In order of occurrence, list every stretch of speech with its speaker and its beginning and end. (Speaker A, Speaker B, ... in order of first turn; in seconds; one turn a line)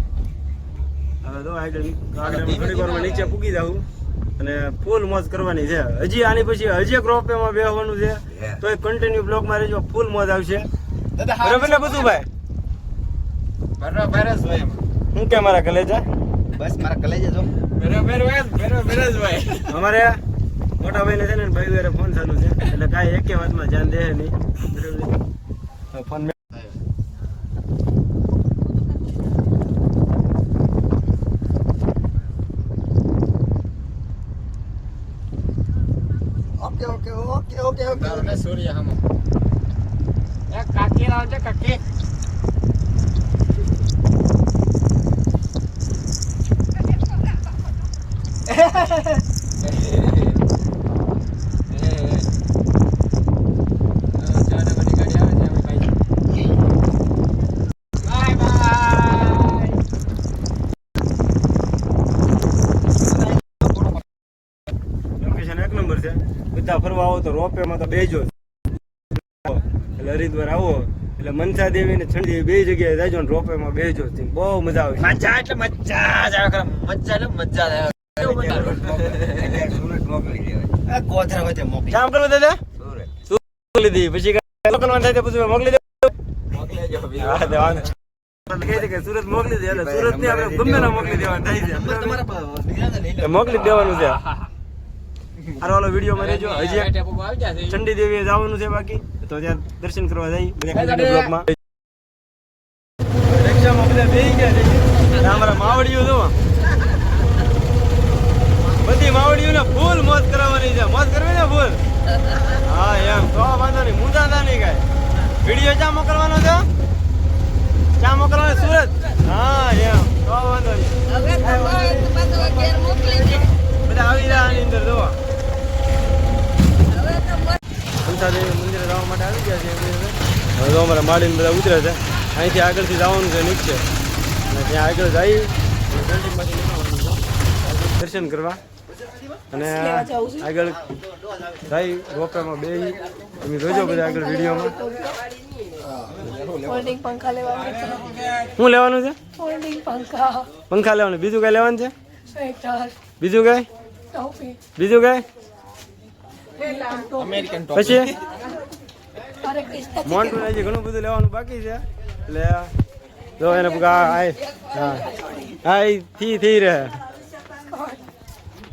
Speaker A: 1.2-3.8
Speaker A: 4.4-10.7
Speaker B: 11.2-11.9
Speaker A: 11.3-12.3
Speaker C: 13.8-14.8
Speaker A: 15.1-16.0
Speaker B: 16.5-17.5
Speaker C: 17.8-19.6
Speaker A: 19.6-20.2
Speaker A: 20.8-25.2
Speaker A: 25.9-26.3
Speaker B: 36.6-38.4
Speaker C: 37.9-39.0
Speaker C: 40.5-41.8
Speaker C: 49.7-50.3
Speaker C: 51.8-52.1
Speaker C: 54.2-55.9
Speaker C: 58.2-59.8
Speaker B: 63.6-63.9
Speaker A: 65.2-68.3
Speaker A: 69.4-75.2
Speaker B: 75.0-82.0
Speaker C: 78.2-78.8
Speaker A: 81.9-82.6
Speaker A: 83.3-86.1
Speaker B: 86.5-87.4
Speaker A: 87.2-87.9
Speaker A: 88.5-92.2
Speaker B: 90.0-93.5
Speaker A: 93.2-94.2
Speaker A: 95.5-97.0
Speaker C: 96.2-97.8
Speaker A: 97.6-101.5
Speaker C: 100.8-101.2
Speaker A: 103.3-106.3
Speaker A: 108.8-111.8
Speaker A: 112.5-114.8
Speaker A: 115.4-116.7
Speaker A: 118.0-125.2
Speaker A: 128.0-133.8
Speaker A: 134.5-138.6
Speaker A: 139.5-140.8
Speaker D: 139.7-140.4
Speaker A: 141.6-144.7
Speaker D: 143.8-145.2
Speaker B: 146.2-146.5
Speaker D: 146.6-148.1
Speaker A: 148.6-149.2
Speaker D: 149.4-150.5
Speaker A: 150.7-151.9
Speaker D: 152.3-152.9
Speaker A: 153.2-153.7
Speaker D: 154.1-154.6
Speaker A: 154.7-155.2
Speaker D: 156.6-157.6
Speaker B: 157.3-158.0
Speaker A: 157.7-158.1
Speaker D: 159.4-160.2
Speaker A: 160.0-162.7
Speaker A: 163.4-165.0
Speaker A: 165.6-167.0
Speaker D: 167.7-168.0